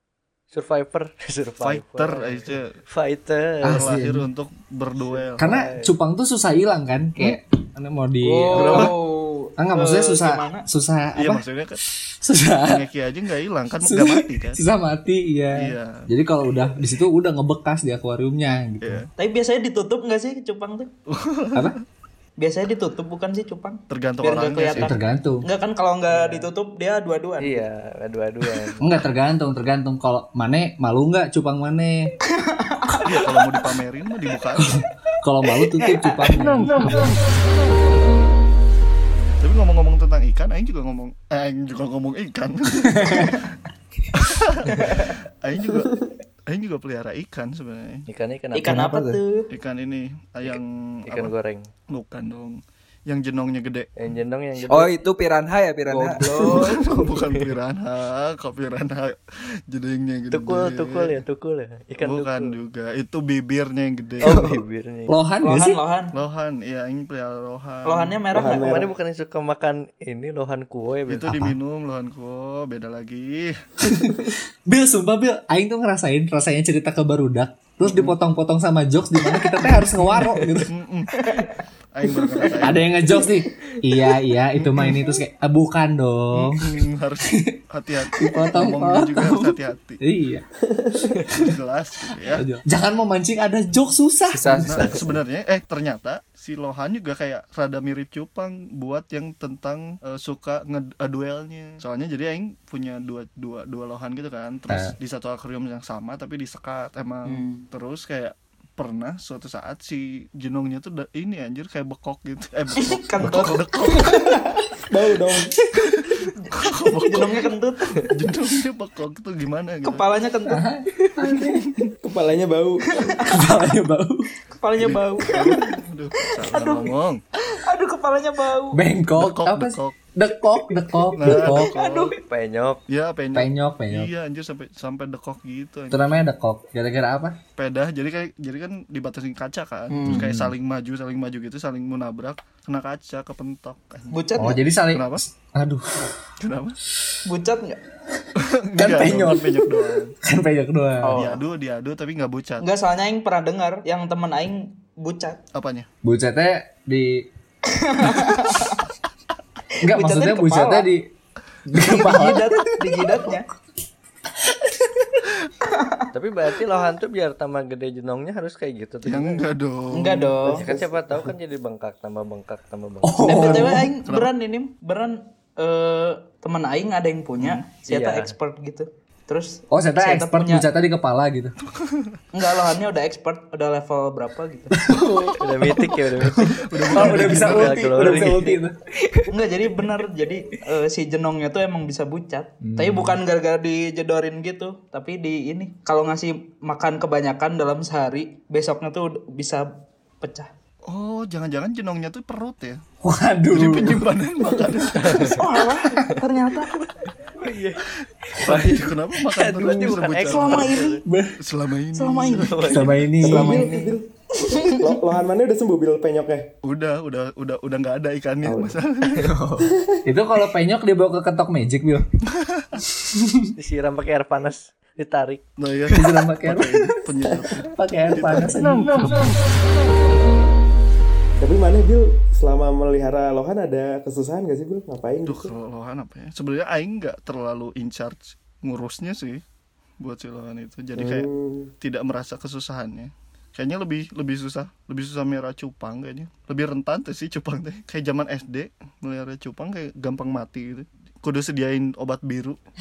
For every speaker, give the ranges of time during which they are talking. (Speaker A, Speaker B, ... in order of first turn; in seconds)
Speaker A: 0.5-3.9, 5.0-5.9, 26.1-26.5, 27.4-28.8, 48.1-48.9, 50.5-51.7, 54.0-55.0, 56.8-57.5, 60.3-62.6, 64.2-65.1, 68.3-71.3, 80.2-80.6, 132.3-132.8, 166.1-169.5, 170.5-173.5, 177.9-178.3, 185.4-188.6, 204.9-205.4, 207.4-210.8, 212.3-213.1, 223.6-225.4
Speaker B: 1.6-2.8, 3.8-5.5, 8.5-8.9, 11.2-11.8, 12.7-14.6, 15.5-15.9, 18.8-19.1, 21.1-21.8, 23.9-24.9, 33.0-34.8, 39.4-43.5, 44.1-45.9, 46.5-48.1, 49.5-51.3, 51.9-53.9, 56.4-59.2, 59.7-61.2, 62.0-64.6, 66.2-68.2, 71.1-73.5, 77.8-78.1, 80.7-81.1, 81.9-82.9, 84.6-85.0, 86.3-90.0, 91.3-92.5, 94.7-114.4, 115.8-117.4, 118.0-120.0, 124.8-127.2, 129.2-129.9, 131.2-132.2, 132.9-136.2, 137.6-144.2, 144.9-145.2, 146.4-146.8, 148.4-150.1, 151.2-152.7, 155.5-155.9, 169.0-170.5, 173.4-174.3, 177.4-177.7, 181.8-182.2, 186.4-188.3, 200.9-202.8, 203.5-205.4, 208.0-213.0, 216.6-219.3, 222.4-222.7, 225.6-228.5, 235.3-239.4, 240.0-241.3, 241.8-252.6
Speaker C: 3.6-4.2, 5.4-8.9, 9.6-12.8, 13.8-19.0, 24.8-25.5, 28.8-32.1, 35.2-37.1, 43.0-43.3, 65.1-65.8, 71.3-71.5, 73.9-80.7, 82.6-86.7, 88.2-90.5, 92.3-95.0, 120.5-121.7, 123.3-124.3, 128.7-131.7, 133.3-134.1, 135.9-137.4, 144.4-146.2, 148.8-149.7, 150.2-151.2, 156.0-157.3, 159.8-161.0, 161.7-162.7, 164.7-165.1, 173.0-173.9, 179.7-181.6, 184.8-188.8, 203.0-204.0, 211.1-211.3, 212.7-213.7, 220.1-222.1, 225.9-227.0, 227.6-229.3
Speaker D: 8.2-10.7, 19.2-20.9, 22.4-27.6, 32.4-33.0, 35.8-36.8, 48.5-49.5, 55.9-56.8, 65.4-66.1, 67.9-68.6, 81.2-81.5, 107.3-107.6, 112.8-114.4, 117.1-118.1, 119.8-120.6, 124.5-125.6, 126.5-126.9, 127.5-128.8, 131.3-132.1, 139.9-140.2, 144.1-144.6, 147.3-147.8, 151.0-151.4, 152.6-155.4, 157.8-158.8, 159.9-160.9, 161.7-163.5, 165.6-166.0, 169.9-170.7, 173.2-180.7, 182.3-184.8, 189.3-199.7, 200.2-200.5, 205.3-206.8, 210.2-211.0, 211.9-213.8, 214.5-215.0
Speaker E: 45.8-46.0, 68.4-68.9, 90.7-91.0, 114.9-115.5, 122.0-122.9, 170.5-171.0, 213.2-214.1, 214.6-216.5, 218.4-218.8, 231.4-235.5, 240.9-241.7
Speaker F: 48.7-49.2, 54.7-56.4, 94.3-95.1, 192.6-193.2, 219.2-219.7